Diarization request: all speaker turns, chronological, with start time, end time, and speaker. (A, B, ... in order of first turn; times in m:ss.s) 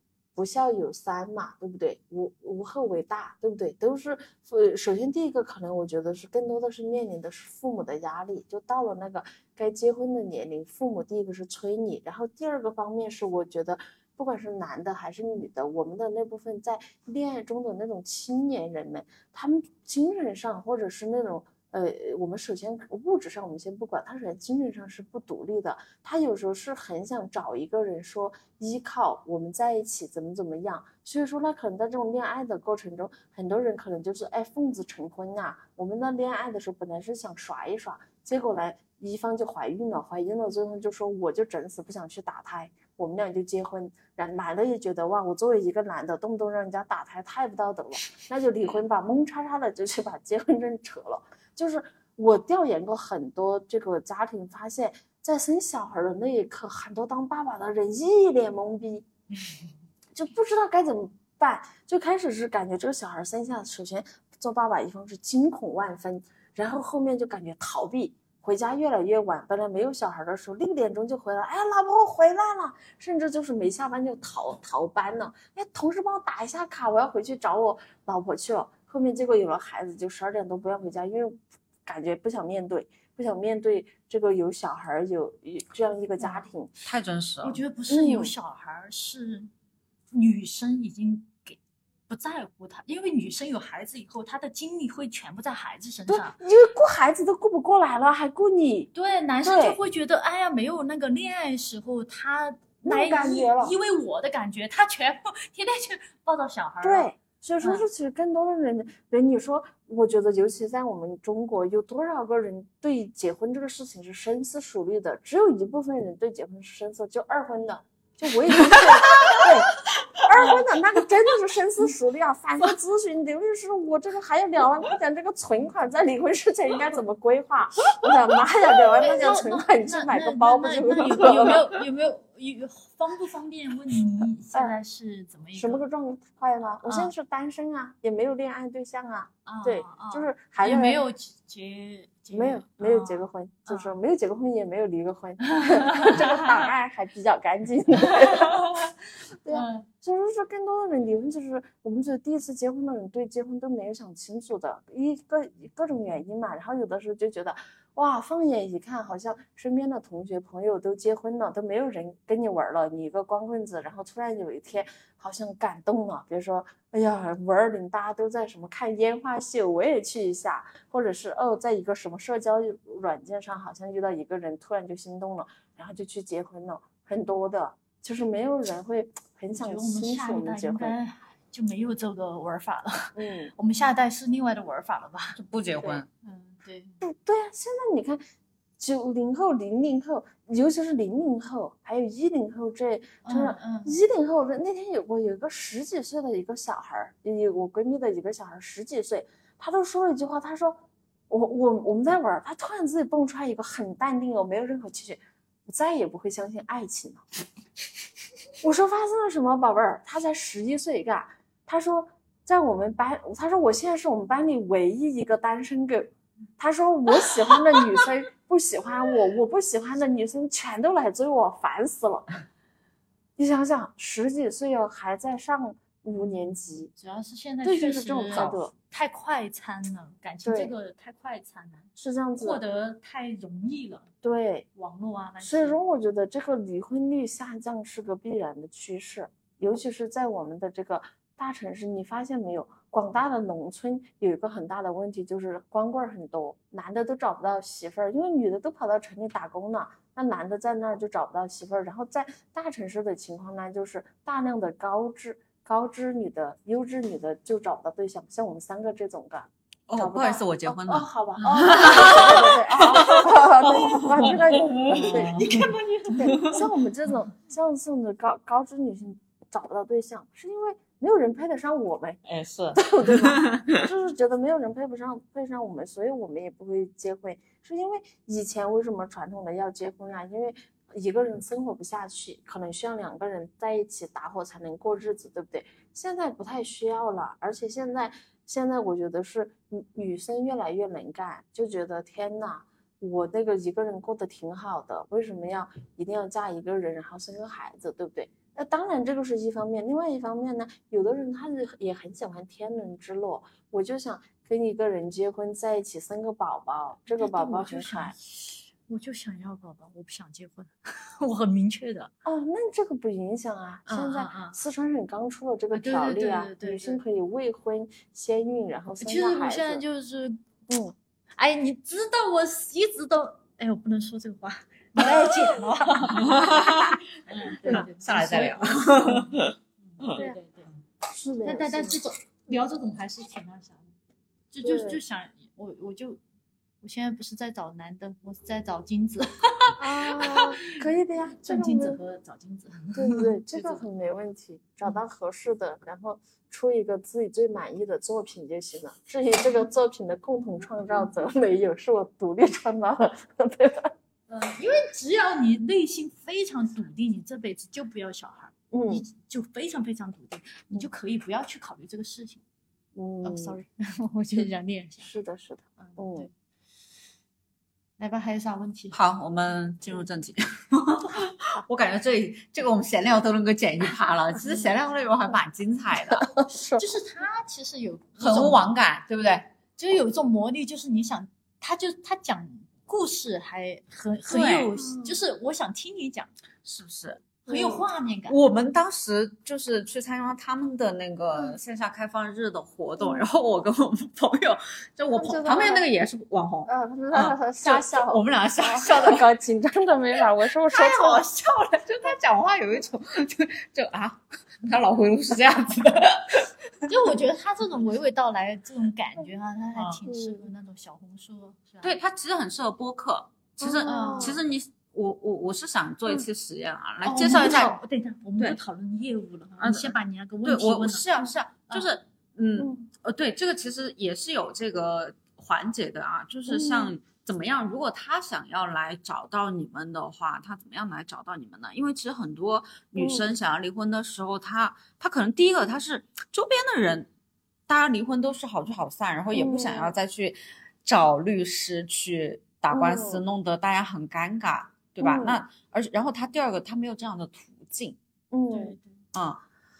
0:00.3-0:59.0 A
1:00.1-1:26.7 A
1:26.2-1:26.4 B
1:26.8-1:27.6 C
1:27.4-1:29.5 B
1:27.9-1:28.3 A
1:30.1-1:31.6 B
1:32.1-1:36.4 B
1:36.1-1:38.9 A
1:38.9-1:47.8 B
1:39.4-1:39.8 A
1:42.8-1:43.8 A
1:46.8-2:11.7 A
1:58.5-2:00.2 C
2:09.0-2:15.8 B
2:15.5-2:21.0 A
2:16.8-2:17.1 B
2:19.4-2:23.9 B
2:22.3-2:28.9 A
2:25.4-2:26.6 B
2:28.1-2:28.9 B
2:29.4-3:01.0 A
2:29.5-2:29.9 B
2:59.5-3:07.0 B
3:03.1-3:03.5 A
3:05.4-3:06.1 C
3:07.0-3:08.2 A
3:08.8-3:27.2 A
3:13.2-3:14.0 B
3:28.6-3:42.3 A
3:43.4-3:46.9 A
3:47.0-3:51.9 B
3:47.6-3:48.7 A
3:48.3-3:48.6 C
3:50.4-3:50.7 A
3:52.0-3:52.6 A
3:52.4-3:54.1 B
3:54.2-3:54.6 A
3:54.7-3:55.8 B
3:55.4-4:25.4 A
4:19.9-4:26.6 C
4:21.4-4:22.5 B
4:24.5-4:26.5 B
4:26.1-4:32.2 A
4:32.2-4:33.8 C
4:32.7-5:08.1 A
5:07.1-5:12.1 B
5:12.2-5:19.8 A
5:13.9-5:14.6 B
5:15.7-5:17.0 B
5:19.0-5:20.4 B
5:20.7-5:20.9 A
5:21.4-5:29.2 B
5:26.2-5:27.0 C
5:27.6-5:29.6 C
5:29.9-5:30.7 B
5:31.1-5:32.0 A
5:31.4-5:33.9 B
5:34.5-5:36.2 B
5:34.6-5:35.0 A
5:36.8-5:40.7 B
5:39.8-5:42.0 A
5:41.4-5:43.8 B
5:42.9-5:53.9 A
5:54.3-6:02.4 B
5:58.7-5:59.0 A
6:02.9-6:03.6 A
6:03.2-6:05.1 B
6:05.0-6:06.3 A
6:05.8-6:06.3 B
6:08.0-6:09.0 B
6:08.9-6:16.3 C
6:16.1-6:16.9 A
6:16.8-6:18.6 B
6:18.2-6:19.5 C
6:19.8-6:26.3 B
6:24.3-6:24.7 C
6:24.8-6:25.2 A
6:26.6-6:27.4 C
6:27.5-6:27.8 A
6:27.5-6:28.4 B
6:28.3-6:39.3 C
6:35.1-6:35.8 A
6:36.6-6:41.2 A
6:40.7-6:46.5 C
6:46.9-6:52.0 B
6:50.1-6:50.5 A
6:51.8-6:57.8 C
6:53.6-6:54.4 A
6:53.8-6:54.4 B
6:57.0-7:02.0 B
6:59.6-7:17.1 C
7:02.6-7:02.8 A
7:06.5-7:06.9 A
7:13.0-7:13.2 A
7:17.7-7:28.0 C
7:19.3-7:20.0 A
7:22.7-7:23.2 A
7:25.0-7:25.4 A
7:28.3-7:28.8 A
7:28.5-7:29.0 B
7:29.1-7:29.4 C